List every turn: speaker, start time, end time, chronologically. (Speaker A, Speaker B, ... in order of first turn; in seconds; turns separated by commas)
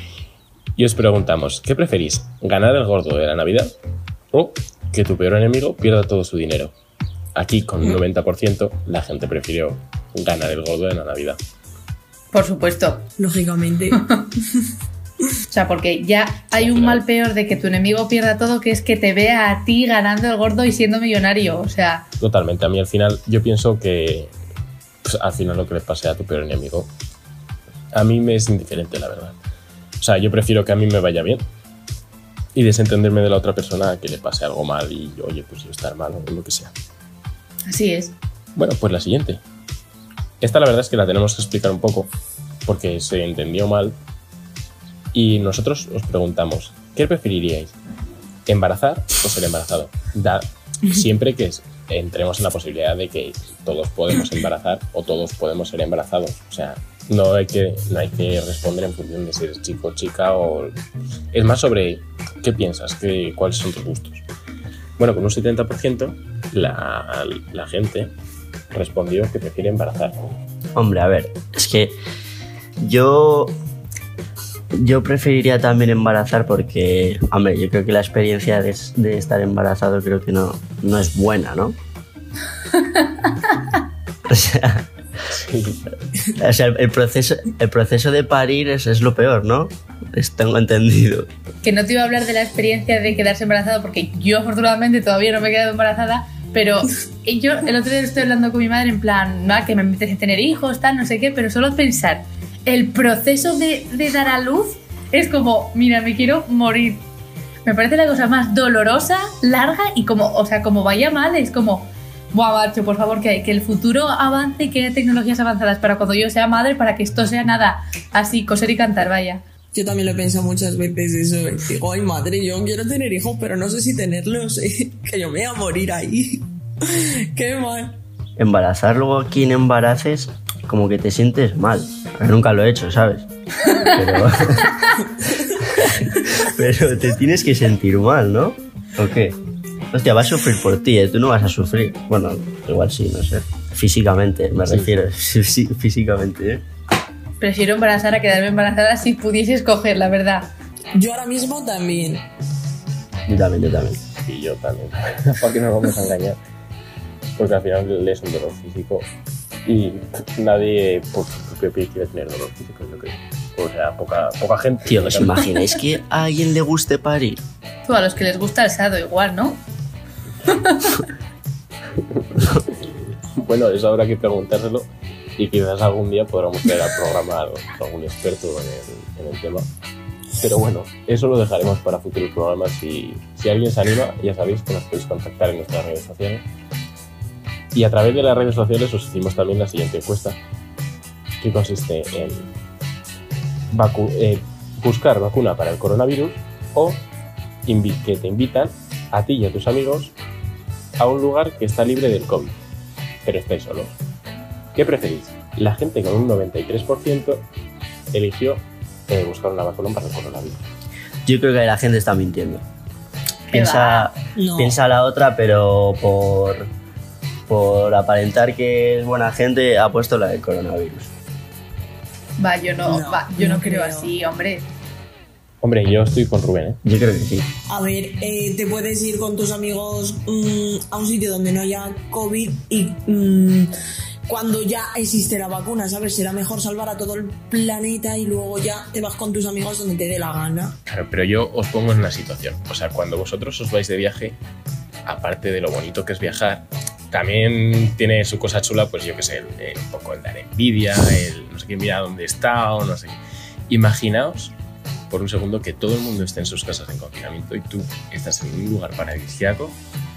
Speaker A: 0.8-3.8, Speaker A: 4.3-6.7, Speaker A: 7.4-11.4, Speaker B: 12.3-13.1, Speaker C: 13.2-14.0, Speaker B: 13.9-14.3, Speaker B: 15.5-22.1, Speaker A: 16.6-17.0, Speaker A: 22.2-24.3, Speaker A: 25.0-26.9, Speaker A: 27.9-29.4, Speaker A: 30.0-31.4, Speaker A: 32.5-36.7, Speaker B: 37.7-38.1, Speaker A: 38.6-39.4, Speaker A: 40.4-42.1, Speaker A: 42.7-44.0, Speaker A: 45.1-47.7, Speaker A: 48.5-60.7, Speaker A: 61.3-64.2, Speaker A: 65.0-68.1, Speaker A: 68.7-70.2, Speaker D: 70.8-72.0, Speaker D: 72.8-73.6, Speaker D: 74.7-81.8, Speaker B: 82.7-83.8, Speaker D: 84.3-84.8, Speaker A: 85.3-85.8, Speaker D: 86.4-91.3, Speaker B: 91.6-107.0, Speaker B: 107.7-119.4, Speaker C: 119.7-128.0, Speaker D: 128.4-133.3, Speaker D: 133.9-134.7, Speaker C: 135.0-135.6, Speaker D: 135.8-139.4, Speaker D: 139.9-146.6, Speaker A: 144.7-144.9, Speaker B: 147.4-150.5, Speaker C: 150.9-152.3, Speaker D: 153.3-154.0, Speaker A: 154.2-156.4, Speaker A: 157.4-159.1, Speaker A: 159.7-165.5, Speaker D: 164.9-167.4, Speaker B: 167.9-169.6, Speaker B: 170.5-171.0, Speaker A: 173.4-179.7, Speaker A: 180.4-186.4, Speaker A: 187.7-190.4, Speaker A: 191.4-192.5, Speaker A: 193.7-197.0, Speaker A: 197.7-200.1, Speaker A: 201.0-202.6, Speaker A: 203.2-204.0, Speaker A: 204.8-207.4, Speaker A: 208.1-210.6, Speaker D: 211.2-212.7, Speaker B: 213.5-214.1, Speaker D: 213.5-216.7, Speaker C: 214.4-214.8, Speaker D: 217.5-221.1, Speaker B: 222.4-224.7, Speaker C: 222.8-224.1, Speaker A: 225.6-226.8, Speaker D: 226.8-227.5, Speaker C: 227.7-233.7, Speaker C: 234.3-240.8, Speaker A: 240.9-244.4, Speaker A: 245.1-254.5, Speaker A: 255.1-259.8